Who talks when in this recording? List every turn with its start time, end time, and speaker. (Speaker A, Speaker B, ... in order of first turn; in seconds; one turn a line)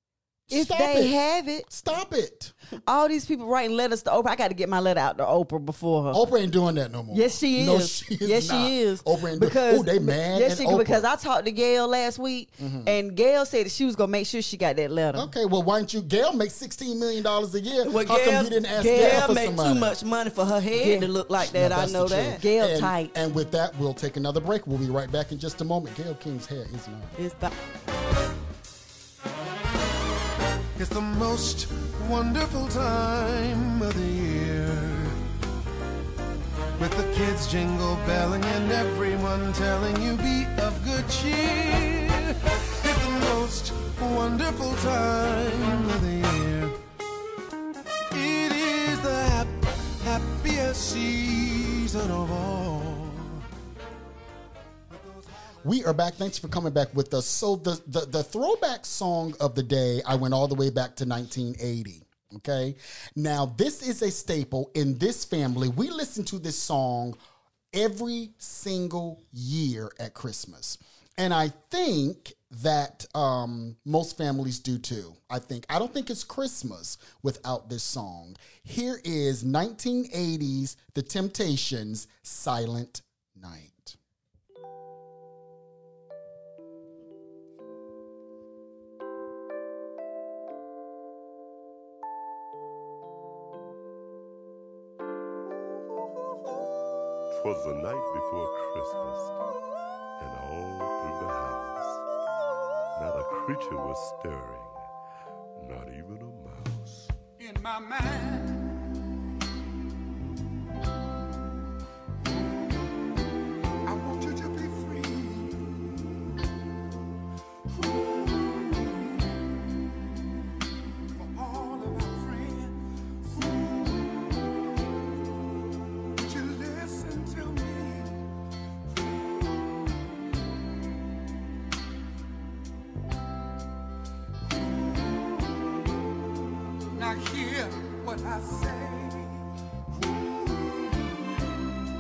Speaker A: 0.5-1.2
Speaker B: 0.5-1.7
Speaker A: 1.7-2.5
Speaker B: 2.8-6.2
Speaker A: 6.1-11.1
Speaker B: 7.1-15.3
Speaker A: 12.6-13.0
Speaker A: 15.1-19.9
Speaker C: 17.8-22.4
Speaker B: 20.7-21.1
Speaker A: 21.4-27.1
Speaker B: 22.4-23.1
Speaker C: 27.2-27.5
Speaker D: 30.8-35.2
Speaker D: 36.8-46.8
Speaker D: 48.1-53.4
Speaker D: 54.9-55.5
Speaker A: 55.6-67.2
Speaker A: 67.7-84.0
Speaker E: 97.3-99.4
Speaker E: 100.2-102.0
Speaker E: 103.0-104.9
Speaker E: 105.6-107.1
Speaker F: 107.4-108.9
Speaker F: 113.8-116.0
Speaker F: 117.8-119.4
Speaker F: 121.2-124.5
Speaker F: 126.2-128.3
Speaker F: 129.0-130.0
Speaker F: 136.9-139.5
Speaker F: 140.0-141.3